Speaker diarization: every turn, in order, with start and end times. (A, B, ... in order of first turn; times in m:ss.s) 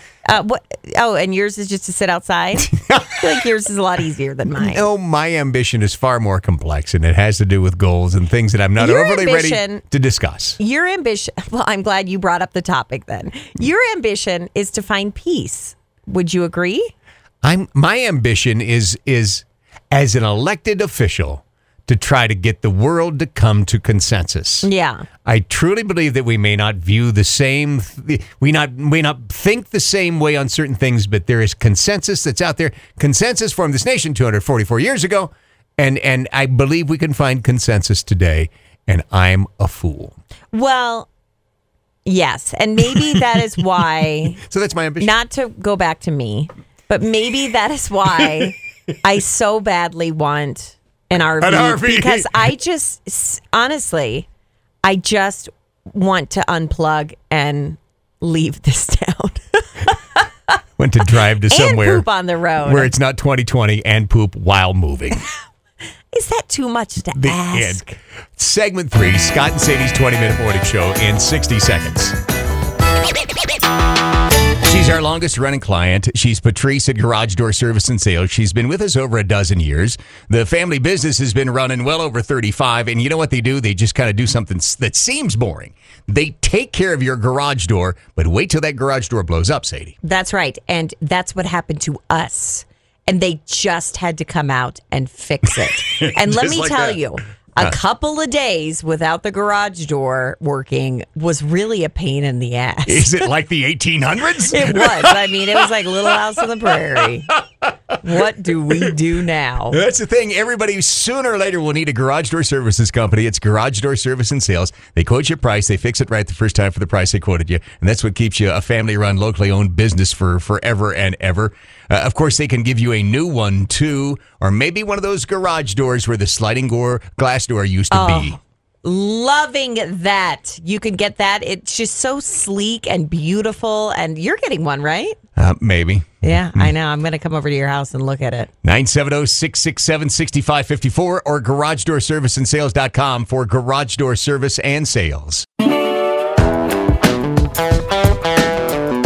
0:00.3-0:04.9 A
0:02.6-0:03.4 B
0:04.6-0:10.6 B
0:08.8-0:09.8 A
0:10.6-0:16.9 A
0:17.4-0:24.7 B
0:24.6-0:25.1 A
0:25.2-0:40.2 B
0:40.5-0:41.1 A
0:42.1-0:44.4 A
0:44.4-0:45.1 B
0:45.0-0:54.3 A
0:51.4-0:52.5 B
0:54.8-1:00.3 A
1:00.8-1:02.1 B
1:01.5-1:02.9 A
1:02.6-1:05.2 B
1:06.1-1:08.0 A
1:07.1-1:07.8 B
1:08.4-1:12.2 B
1:14.6-1:30.0 B
1:30.0-1:43.2 A
1:36.0-1:37.0 B
1:42.9-1:48.0 B
1:44.5-1:47.4 A
1:48.0-1:49.8 A
1:48.7-1:49.0 B
1:49.7-2:08.4 B
2:07.9-2:15.2 A
2:15.4-2:16.7 B
2:16.2-2:18.5 A
2:18.6-2:25.5 B